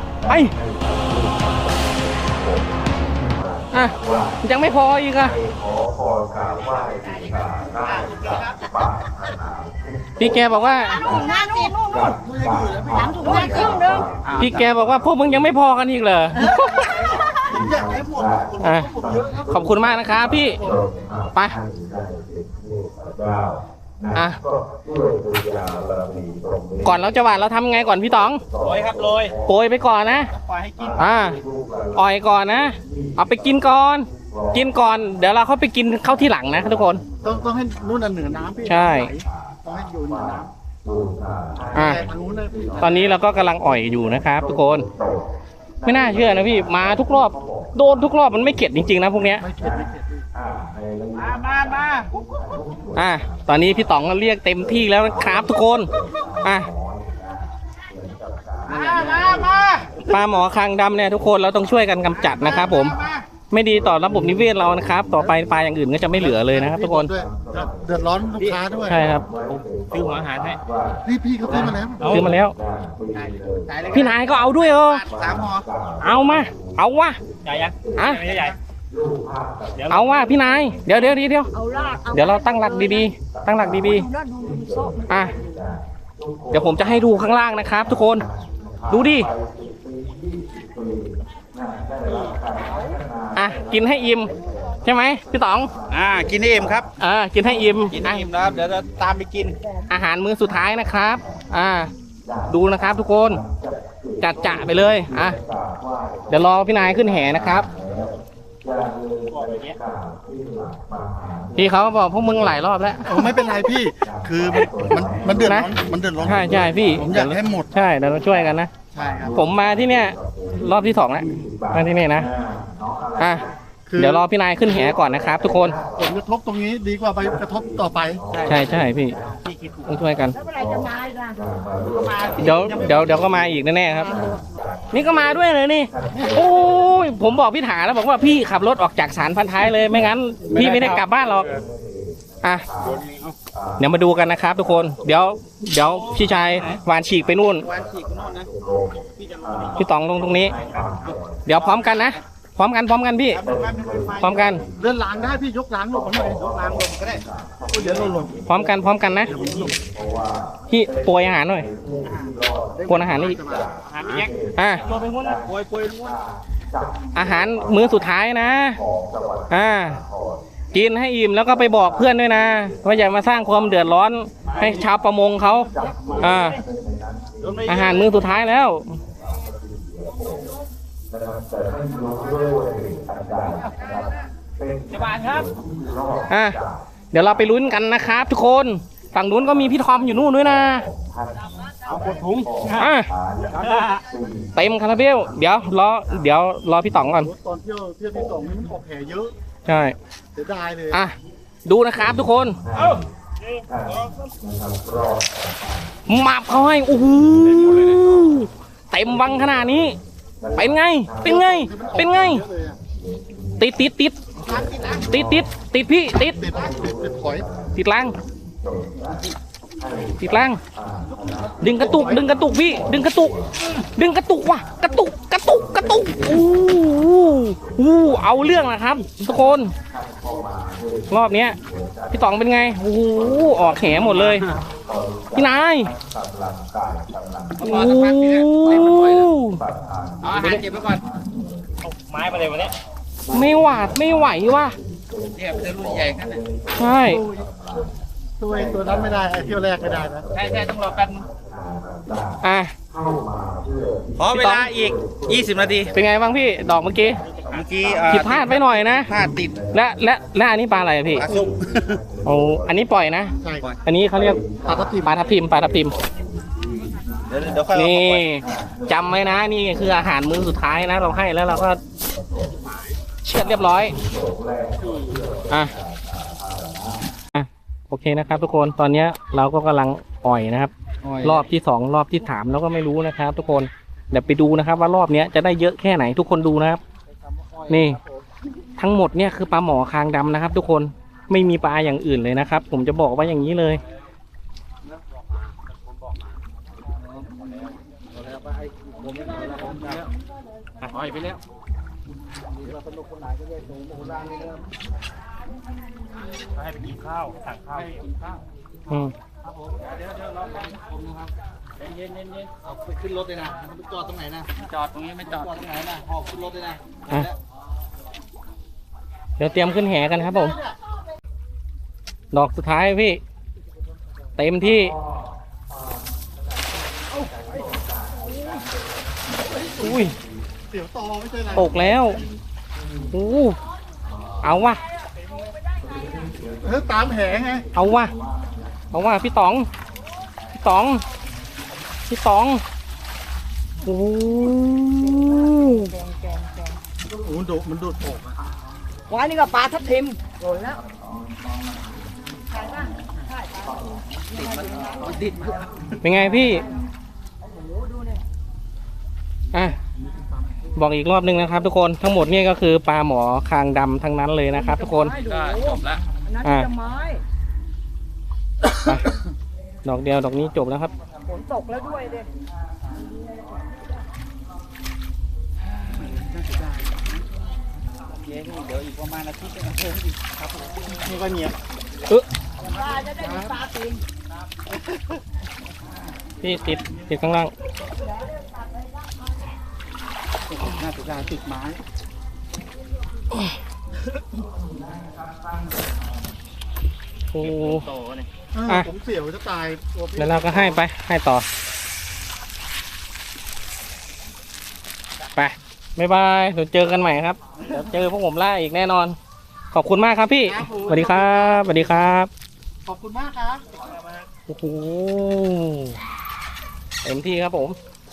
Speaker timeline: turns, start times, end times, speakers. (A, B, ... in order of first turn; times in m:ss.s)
0:00.3-0:00.5 A
0:03.7-0:05.4 A
0:06.5-0:08.6 B
0:10.2-0:11.0 A
0:10.8-0:12.2 C
0:12.1-0:14.0 D
0:13.0-0:14.2 C
0:14.1-0:14.6 B
0:14.4-0:17.1 A
0:17.5-0:19.6 D
0:18.6-0:18.9 A
0:19.5-0:20.6 A
0:24.1-0:24.4 A
0:26.8-0:28.4 A
0:28.6-0:29.4 B
0:29.5-0:30.3 A
0:30.3-0:31.1 B
0:31.0-0:31.4 A
0:31.9-0:37.0 A
0:37.2-0:40.5 D
0:38.7-0:39.1 A
0:41.7-0:42.0 A
0:41.8-0:43.2 D
0:42.8-0:44.9 A
0:45.8-0:49.4 A
0:49.4-0:50.3 D
0:51.2-0:52.1 B
0:52.9-0:55.9 A
0:56.4-0:56.7 A
0:58.7-1:00.0 B
1:00.0-1:03.0 A
1:02.2-1:03.2 B
1:03.5-1:07.1 A
1:06.2-1:09.0 D
1:08.9-1:09.3 A
1:09.9-1:10.6 B
1:11.0-1:12.2 D
1:11.5-1:12.3 B
1:12.0-1:12.6 A
1:13.1-1:14.2 B
1:13.9-1:15.1 A
1:14.7-1:15.7 B
1:16.0-1:17.2 A
1:17.4-1:18.6 B
1:18.0-1:18.3 A
1:19.8-1:20.0 B
1:19.9-1:21.5 A
1:21.5-1:23.1 C
1:22.1-1:24.1 A
1:23.8-1:25.2 C
1:25.1-1:25.4 A
1:26.5-1:28.3 A
1:28.9-1:29.3 A
1:32.1-1:32.4 B
1:32.7-1:33.0 C
1:33.4-1:34.3 A
1:34.8-1:35.7 A
1:35.9-1:36.9 B
1:37.0-1:38.2 A
1:37.9-1:39.6 B
1:39.9-1:41.9 A
1:42.5-1:43.4 A
1:44.2-1:45.4 A
1:46.3-1:47.7 A
1:49.3-1:49.8 B
1:51.6-1:53.3 A
1:53.1-1:57.7 D
1:55.3-1:58.7 A
1:58.9-1:59.4 D
1:59.3-2:02.3 A
2:03.2-2:03.4 A
2:03.9-2:04.2 D
2:04.0-2:05.8 A
2:06.0-2:08.2 D
2:08.3-2:10.0 B
2:08.5-2:09.2 A
2:09.9-2:10.4 A
2:10.3-2:11.4 C
2:11.9-2:13.3 B
2:12.4-2:14.2 A
2:14.0-2:14.4 C
2:14.9-2:21.5 A
2:20.5-2:21.6 B
2:22.4-2:22.7 A
2:22.8-2:23.4 B
2:23.8-2:27.7 A
2:25.8-2:26.8 B
2:27.6-2:28.5 B
2:29.2-2:29.8 B
2:29.8-2:30.6 A
2:30.6-2:32.2 B
2:31.5-2:33.4 A
2:33.3-2:34.6 B
2:34.2-2:34.6 A
2:34.8-2:36.4 D
2:36.2-2:38.2 B
2:37.7-2:38.4 D
2:38.5-2:39.3 A
2:39.3-2:39.6 B
2:39.3-2:39.8 D
2:40.7-2:41.7 A
2:42.8-2:43.7 D
2:42.9-2:43.4 A
2:43.8-2:44.3 B
2:44.6-2:44.8 A
2:44.8-2:46.2 B
2:47.1-2:48.8 A
2:49.5-2:50.0 A
2:50.7-2:56.6 A
2:55.9-2:56.2 B
2:57.4-2:58.2 B
2:57.7-2:59.0 A
3:04.9-3:05.5 B
3:06.3-3:06.6 A
3:07.1-3:10.9 A
3:11.9-3:12.8 B
3:12.8-3:13.1 A
3:13.5-3:14.0 B
3:14.6-3:17.3 A
3:17.2-3:19.3 D
3:19.7-3:20.0 A
3:20.4-3:21.0 D
3:20.9-3:22.6 A
3:23.6-3:24.1 B
3:26.1-3:30.0 A
3:30.5-3:32.4 A
3:31.2-3:32.8 D
3:33.6-3:34.2 A
3:34.5-3:35.0 D
3:34.9-3:36.4 A
3:36.2-3:37.5 D
3:37.7-3:38.2 A
3:40.2-3:40.6 A
3:41.5-3:42.3 D
3:41.6-3:43.4 A
3:44.0-3:49.7 A
3:51.1-3:51.6 A
3:52.1-3:54.5 A
3:54.2-3:54.5 B
3:55.4-3:55.9 A
3:57.6-3:59.3 B
3:57.6-3:59.6 A
4:00.2-4:01.0 B
4:01.8-4:02.7 B
4:03.3-4:04.8 A
4:05.3-4:06.4 B
4:06.8-4:07.2 A
4:07.1-4:07.5 D
4:08.4-4:10.3 D
4:10.3-4:11.3 B
4:12.4-4:12.7 A
4:14.2-4:15.9 B
4:14.3-4:14.7 A
4:15.9-4:17.2 A
4:17.4-4:19.6 B
4:18.1-4:19.1 A
4:19.7-4:21.3 A
4:21.2-4:22.0 B
4:22.2-4:23.3 A
4:23.4-4:23.7 D
4:23.8-4:24.4 A
4:24.6-4:25.2 D
4:25.0-4:26.0 A
4:27.3-4:28.2 B
4:27.7-4:31.8 A
4:33.2-4:34.0 A
4:37.3-4:46.8 A
4:41.0-4:41.4 B
4:47.4-4:48.2 B
4:47.7-4:48.0 A
4:48.8-4:53.8 A
4:58.1-5:00.1 B
5:00.8-5:01.4 B
5:02.6-5:04.6 B
5:06.5-5:08.4 B
5:08.9-5:09.1 A
5:09.7-5:17.2 B
5:19.4-5:20.6 A
5:22.3-5:23.2 A
5:24.4-5:25.0 A
5:29.4-5:30.1 D
5:29.8-5:30.2 A
5:30.7-5:32.0 D
5:31.6-5:32.2 A
5:33.1-5:33.6 A
5:34.4-5:34.8 A
5:36.6-5:37.7 D
5:37.7-5:38.1 A
5:38.9-5:39.7 A
5:40.6-5:41.0 A
5:42.1-5:42.6 A
5:43.8-5:45.9 A
5:45.0-5:46.8 C
5:47.1-5:48.4 D
5:49.1-5:50.8 C
5:52.5-5:53.8 C
5:54.3-5:55.7 B
5:54.7-5:55.0 C
5:56.0-5:56.7 A
5:57.5-5:58.2 C
6:00.8-6:05.2 A
6:04.6-6:07.2 C
6:05.2-6:06.0 B
6:06.4-6:06.7 A
6:08.8-6:09.1 A
6:09.8-6:10.9 A
6:11.3-6:12.3 C
6:16.1-6:16.9 D
6:18.2-6:21.2 B
6:20.9-6:21.5 D
6:22.7-6:24.0 C
6:23.0-6:23.5 D
6:26.4-6:27.5 A
6:30.5-6:31.8 B
6:37.3-6:37.9 A
6:37.4-6:38.3 B
6:38.5-6:40.8 D
6:40.2-6:41.4 A
6:45.4-6:49.2 A
6:49.7-6:52.3 A
6:50.5-6:52.0 D
6:52.9-6:53.6 D
6:54.5-6:56.0 A
6:57.0-6:57.8 A